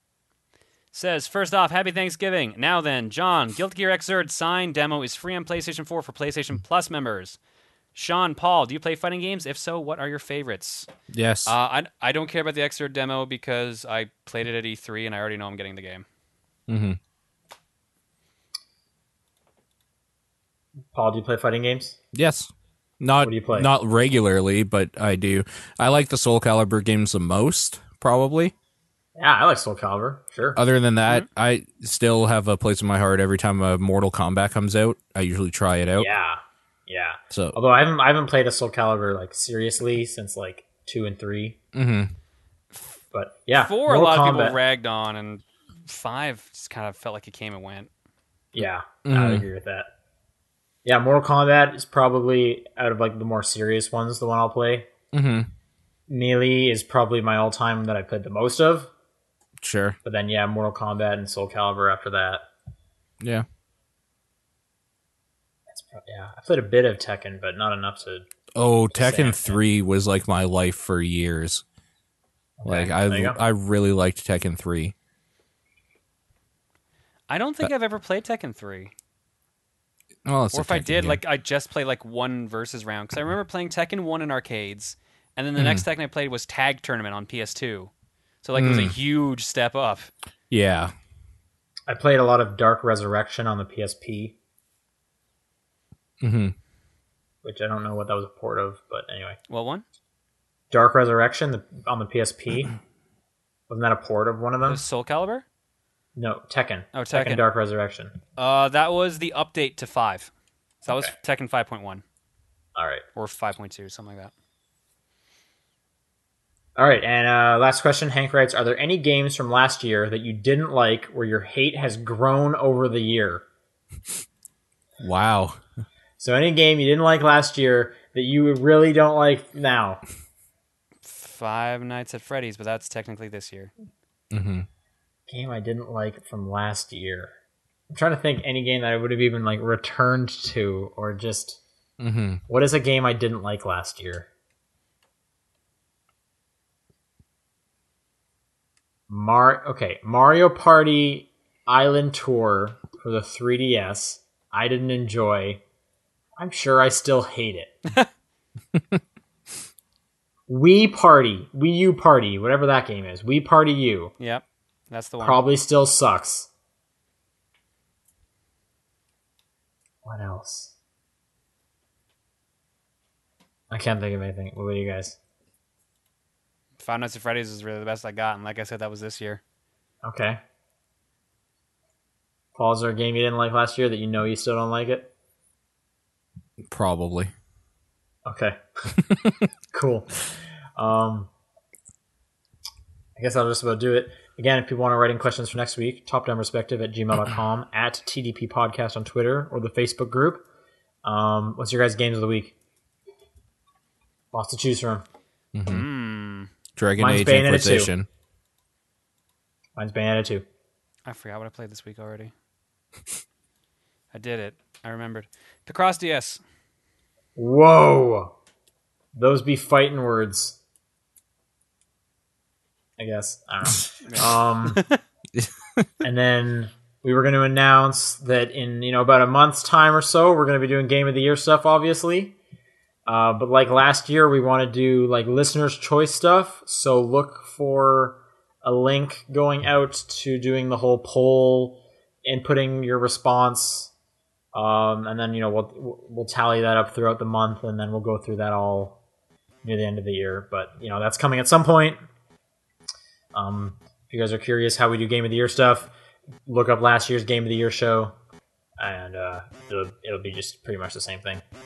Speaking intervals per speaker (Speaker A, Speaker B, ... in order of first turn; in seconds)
Speaker A: 0.9-7.4, 7.9-10.9, 11.4-16.1, 43.5-47.9, 77.3-78.9, 80.5-87.9, 88.4-90.1, 99.5-99.8, 104.6-105.4, 106.9-107.4, 108.4-110.3, 110.8-112.0, 113.2-114.3, 131.0-133.7, 164.2-165.4, 176.8-179.4, 205.7-206.5, 211.1-212.3, 214.1-216.4, 224.0-225.0
Speaker B: 11.1-11.6, 16.7-17.0, 22.1-28.5, 30.6-36.1, 37.3-37.5, 41.7-42.1, 49.0-49.4, 55.1-55.5, 59.6-60.0, 68.5-71.6, 72.6-74.9, 80.2-81.2, 85.6-85.8, 88.5-88.9, 90.5-90.9, 96.2-96.5, 125.0-125.6, 134.3-134.7, 142.0-142.4, 186.7-187.3, 205.5-205.8, 206.8-208.1, 225.3-225.9
Speaker C: 20.9-22.0, 23.2-23.7, 29.1-30.6, 36.0-41.6, 43.1-44.6, 48.5-49.9, 50.9-54.9, 56.1-58.9, 60.0-62.4, 65.7-68.2, 68.9-69.6, 72.6-73.4, 91.9-94.3, 97.4-99.4, 100.7-102.7, 103.7-104.8, 106.2-108.2, 112.8-113.0, 116.8-123.4, 126.2-130.0, 135.3-137.3, 137.9-141.6, 142.5-144.3, 149.1-155.6, 156.4-157.7, 160.5-164.1, 165.2-166.5, 170.1-170.7, 173.7-175.2, 180.0-180.4, 182.6-185.1, 188.3-188.6, 189.7-190.1, 190.8-191.3, 193.2-200.4, 201.0-202.6, 204.3-205.1, 207.0-207.9, 209.8-210.4, 217.3-218.3, 219.1-220.6, 223.0-224.8, 226.0-232.4, 233.1-243.9, 244.5-249.0, 249.6-252.0, 253.3-255.9, 256.5-258.1, 258.8-261.4